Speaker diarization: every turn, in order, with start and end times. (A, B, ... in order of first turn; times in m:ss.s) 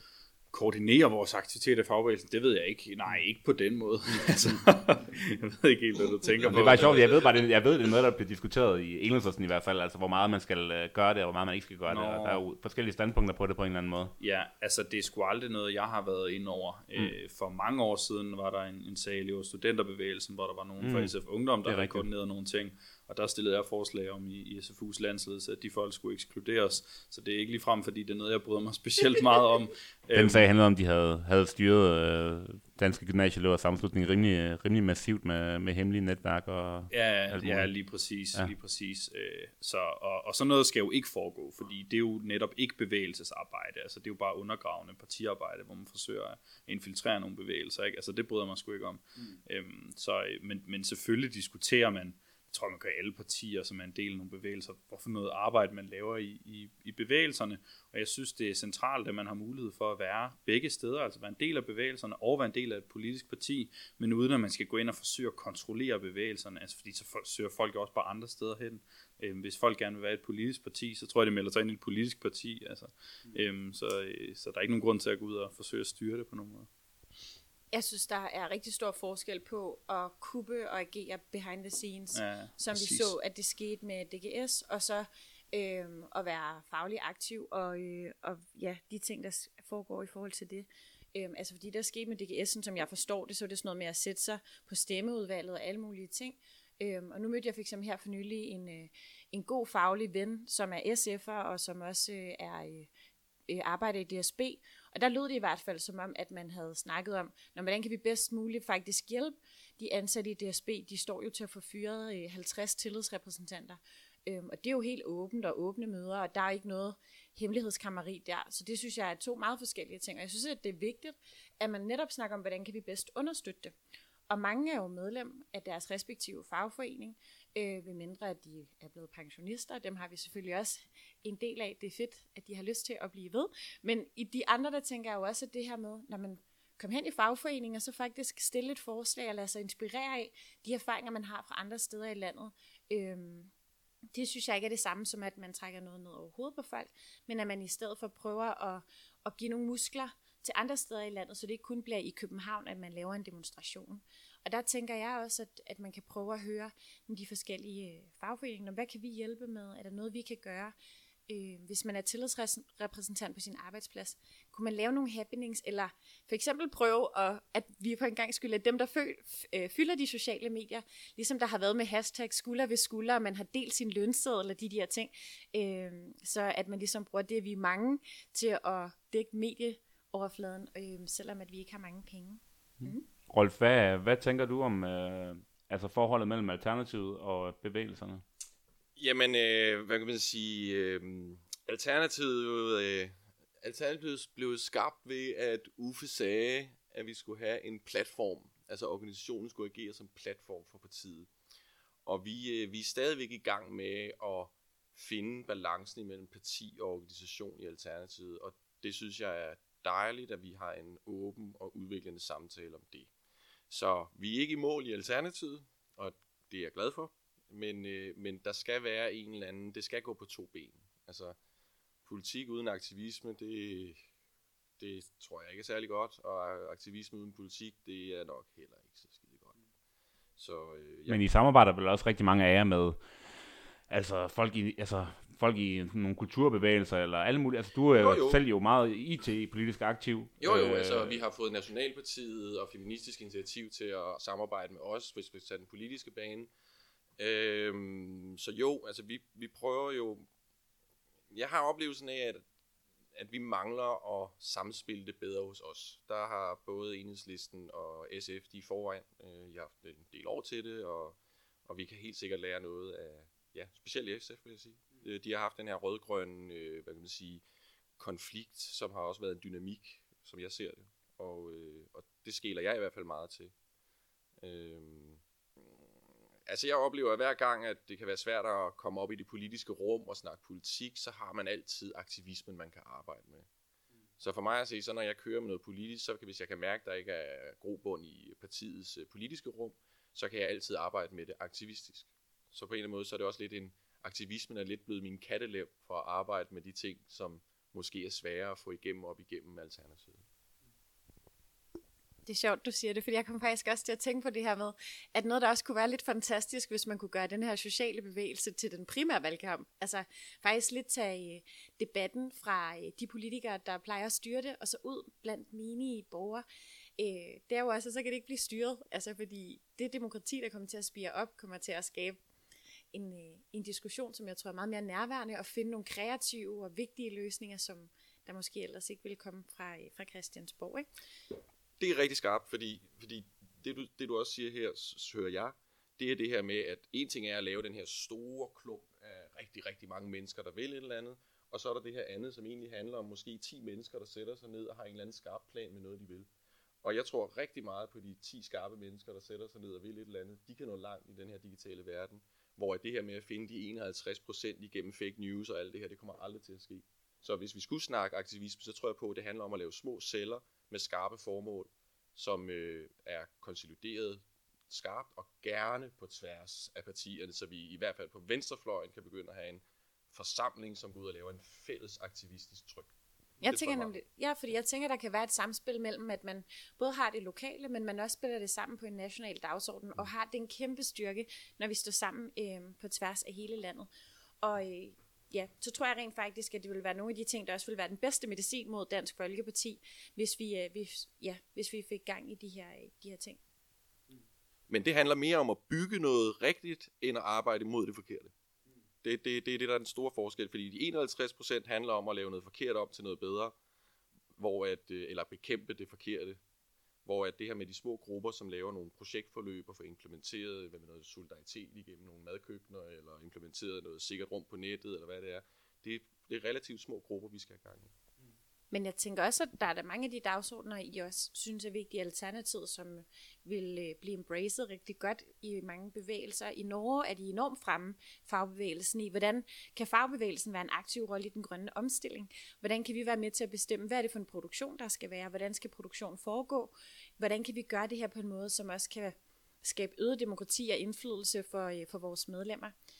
0:00.5-0:07.1 A
0:06.4-0:14.1 B
0:06.5-0:07.2 C
0:11.9-0:12.4 A
0:14.2-0:30.5 A
0:20.8-0:21.1 B
0:21.6-0:22.0 B
0:30.1-0:37.7 B
0:36.9-1:16.7 A
1:17.7-1:42.9 D
1:22.1-1:23.1 A
1:43.5-2:03.7 D
2:04.3-2:23.5 D
2:24.1-2:40.7 D
2:41.3-3:03.0 D
3:02.8-3:08.2 B
3:09.0-3:21.3 C
3:22.0-3:33.1 C
3:33.7-3:41.4 C
3:42.0-3:44.0 C
3:44.8-3:49.5 C
3:50.4-3:51.2 C
3:51.1-3:53.0 B
3:53.9-4:01.2 B
3:58.0-3:58.4 C
4:00.4-4:06.5 C
4:07.2-4:10.2 C
4:11.3-4:12.4 C
4:13.2-4:27.4 C
4:28.0-4:33.5 C
4:34.4-4:35.8 C
4:36.5-4:43.4 C
4:44.2-5:00.2 C
5:02.2-5:16.4 D
5:17.0-5:22.2 D
5:22.9-5:30.9 D
5:31.8-5:46.3 C
5:46.8-6:12.9 C
6:13.4-6:23.9 D
6:13.4-6:13.9 C
6:24.4-6:33.4 D
6:34.7-6:38.3 C
6:39.0-6:43.5 C
6:44.4-6:46.4 C
6:47.0-6:57.9 C
6:58.7-7:22.7 D